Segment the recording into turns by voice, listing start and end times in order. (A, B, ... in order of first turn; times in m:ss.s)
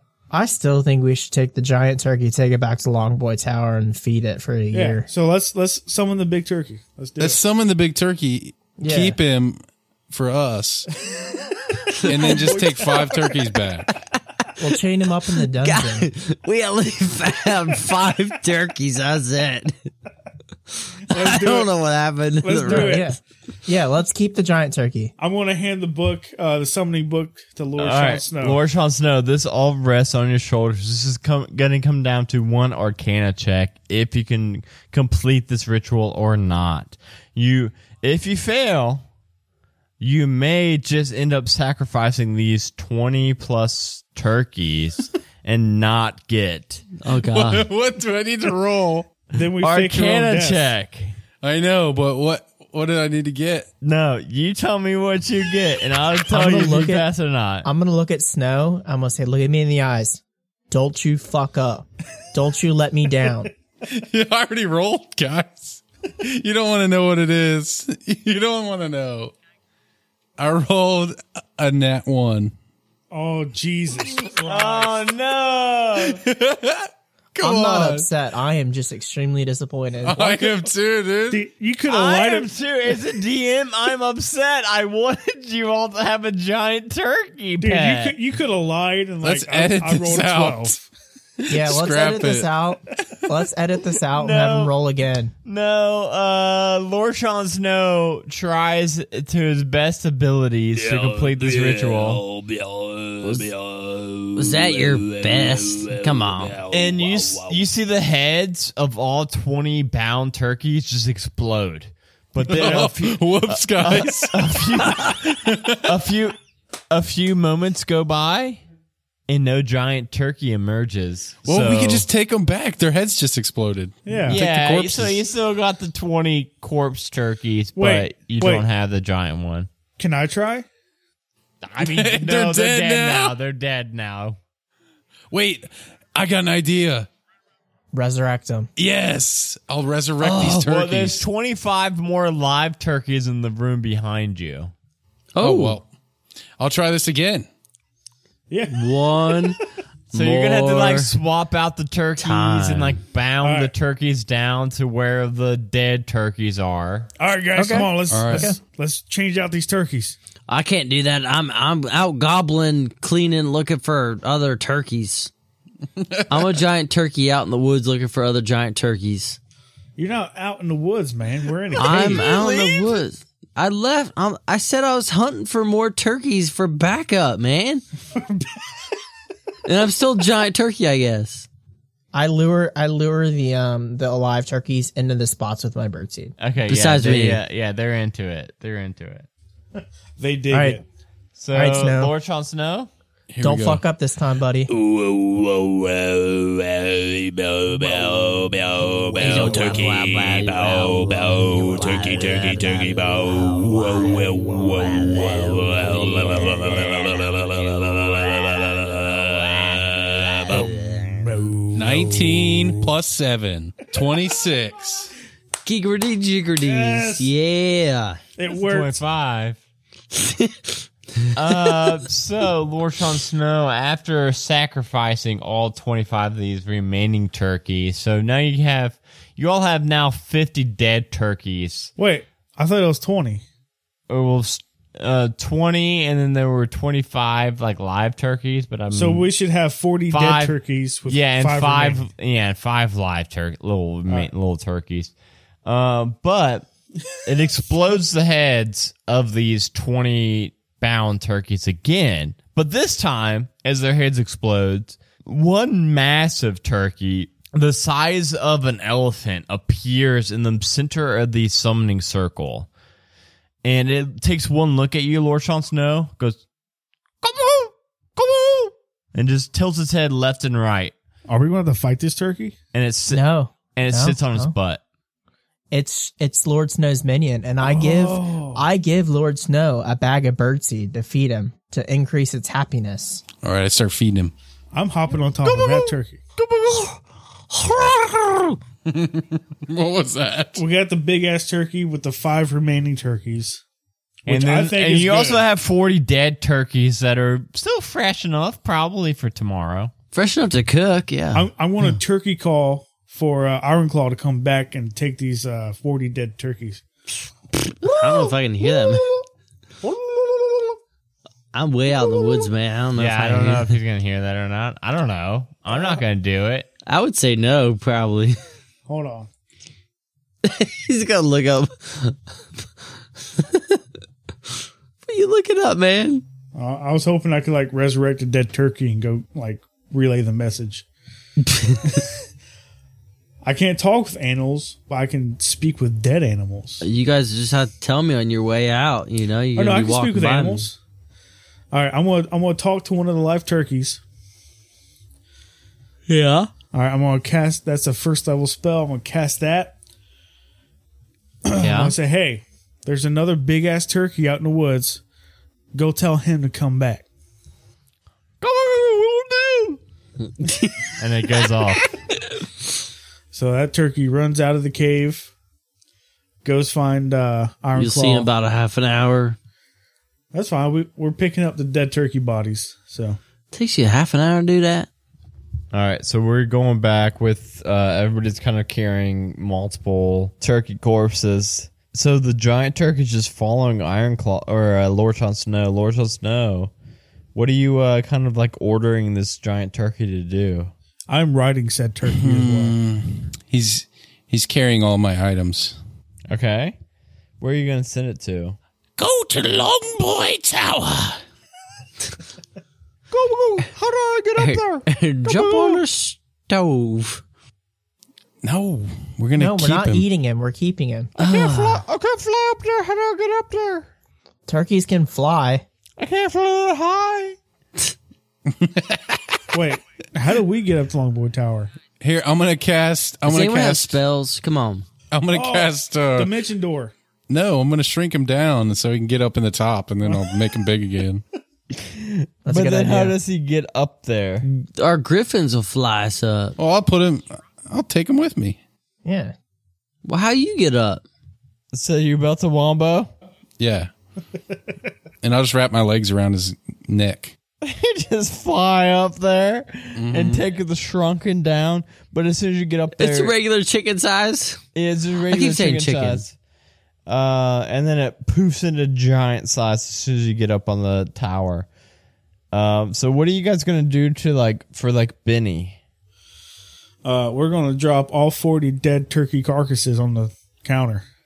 0:00.3-0:05.1 A
0:04.7-0:07.4 B
0:07.2-0:10.9 C
0:08.8-0:09.2 A
0:12.0-0:13.9 C
0:12.1-0:13.2 B
0:14.6-0:16.1 A
0:15.6-0:19.7 D
0:21.1-0:23.1 D
0:21.1-0:21.7 B
0:22.4-0:23.1 B
0:22.7-0:25.1 A
0:25.2-0:28.6 B
0:27.8-0:39.0 E
0:40.0-0:46.8 E
0:47.0-0:47.7 D
0:47.1-0:49.2 C
0:49.3-0:50.7 B
0:49.6-0:51.1 E
0:51.4-0:53.7 C
0:53.8-0:57.7 E
0:56.3-0:57.1 A
0:57.6-1:03.5 A
1:03.9-1:09.3 C
1:10.4-1:12.5 C
1:13.1-1:15.0 B
1:14.2-1:16.2 E
1:16.1-1:18.1 C
1:17.4-1:20.5 A
1:20.0-1:21.4 C
1:21.3-1:22.5 B
1:21.9-1:28.2 E
1:27.6-1:30.8 B
1:29.2-1:30.8 C
1:31.4-1:32.5 C
1:31.5-1:35.3 A
1:34.1-1:34.7 E
1:35.4-1:42.2 E
1:40.8-1:47.6 F
1:43.2-1:43.5 D
1:44.4-1:46.6 D
1:46.7-1:56.4 E
1:52.4-1:55.8 C
1:56.9-1:58.6 E
1:59.3-2:02.1 E
2:01.4-2:05.2 C
2:04.1-2:04.4 B
2:04.3-2:09.7 E
2:07.8-2:08.6 B
2:10.0-2:10.7 B
2:11.6-2:14.4 E
2:11.8-2:13.4 C
2:15.3-2:17.1 C
2:17.9-2:18.7 A
2:18.8-2:21.2 C
2:20.2-2:20.6 D
2:20.4-2:24.7 E
2:25.4-2:25.8 D
2:25.4-2:25.9 C
2:26.6-2:27.5 C
2:28.5-2:28.9 B
2:28.7-2:29.6 D
2:30.1-2:31.1 D
2:30.1-2:37.1 E
2:32.2-2:33.0 D
2:33.4-2:33.7 B
2:37.2-2:40.2 B
2:37.6-2:38.6 A
2:38.1-2:38.5 C
2:40.5-2:45.3 D
2:46.0-2:46.5 C
2:46.3-2:49.4 D
2:50.0-2:52.4 B
2:51.8-2:53.0 E
2:51.8-2:57.8 D
2:58.1-2:58.6 B
2:59.7-3:01.5 D
3:02.1-3:06.3 A
3:06.4-3:09.3 E
3:06.7-3:07.4 D
3:10.2-3:10.8 B
3:10.5-3:10.8 A
3:11.4-3:12.9 E
3:11.5-3:12.1 A
3:13.3-3:13.8 C
3:13.4-3:14.7 A
3:14.7-3:30.7 F
3:19.1-3:27.0 D
3:30.5-3:31.0 D
3:30.5-3:32.9 B
3:31.7-3:35.1 C
3:35.6-3:38.2 D
3:36.6-3:37.3 B
3:38.4-3:39.0 B
3:38.5-3:39.6 E
3:40.1-3:40.8 D
3:41.3-3:51.9 E
3:52.0-3:53.4 B
3:54.1-3:59.3 E
3:58.9-4:02.0 B
4:00.1-4:00.6 E
4:01.1-4:05.1 E
4:05.6-4:06.7 E
4:07.2-4:22.7 E
4:23.6-4:26.4 E
4:27.2-4:31.0 E
4:31.3-4:32.6 B
4:32.7-4:33.2 E
4:33.1-4:34.5 A
4:33.8-4:34.8 E
4:35.7-4:43.2 A
4:37.6-4:38.6 B
4:43.4-4:44.3 C
4:44.7-4:46.2 B
4:45.4-4:45.8 E
4:46.6-4:46.9 D
4:47.5-4:48.6 D
4:48.9-4:50.6 C
4:50.6-4:53.6 B
4:54.3-4:55.4 B
4:54.3-4:59.9 E
5:00.1-5:01.5 D
5:01.3-5:06.8 B
5:07.6-5:09.1 D
5:10.2-5:10.6 E
5:11.5-5:13.7 D
5:13.0-5:16.7 E
5:16.9-5:18.4 D
5:18.9-5:19.3 B
5:20.4-5:22.2 D
5:23.4-5:23.8 D
5:25.1-5:26.2 D
5:26.5-5:30.8 B
5:31.4-5:32.0 D
5:33.4-5:36.8 B
5:36.8-5:40.7 D
5:39.6-5:40.8 B
5:41.7-5:44.0 B
5:46.1-5:46.5 D
5:46.7-5:49.8 B
5:51.5-5:55.0 B
5:51.6-5:51.9 D
5:55.7-5:57.0 B
5:58.4-5:59.8 E
6:00.4-6:00.9 D
6:01.0-6:01.8 E
6:03.3-6:05.3 B
6:06.4-6:08.3 B
6:07.8-6:09.4 D
6:10.3-6:13.2 B
6:13.5-6:14.9 D
6:15.7-6:26.7 E
6:27.4-6:30.7 E
6:31.1-6:32.8 B
6:32.1-6:35.8 C
6:36.3-6:36.8 E
6:37.4-6:38.6 E
6:39.0-6:41.2 F
6:43.1-6:45.8 E
6:44.4-6:47.2 D
6:48.4-6:50.1 C
6:49.4-6:51.1 A
6:51.2-6:53.9 E
6:51.2-6:51.8 D
6:54.5-6:55.6 A
6:56.0-6:57.4 E
6:58.5-6:59.4 C
6:59.5-7:01.7 B
7:02.0-7:04.0 C
7:03.2-7:04.9 D
7:05.1-7:06.3 C
7:05.3-7:06.9 B
7:07.3-7:11.2 C
7:11.7-7:14.5 E
7:12.5-7:13.2 A
7:14.5-7:16.6 D
7:16.6-7:18.6 C
7:19.0-7:19.4 A
7:20.0-7:21.0 D
7:21.7-7:23.1 E
7:23.6-7:23.9 C
7:25.2-7:27.4 C
7:27.6-7:33.3 E
7:30.0-7:30.4 C
7:33.0-7:34.6 D
7:34.8-7:36.4 E
7:35.3-7:36.2 D
7:37.1-7:41.7 E
7:42.5-7:45.8 E
7:47.0-7:51.1 B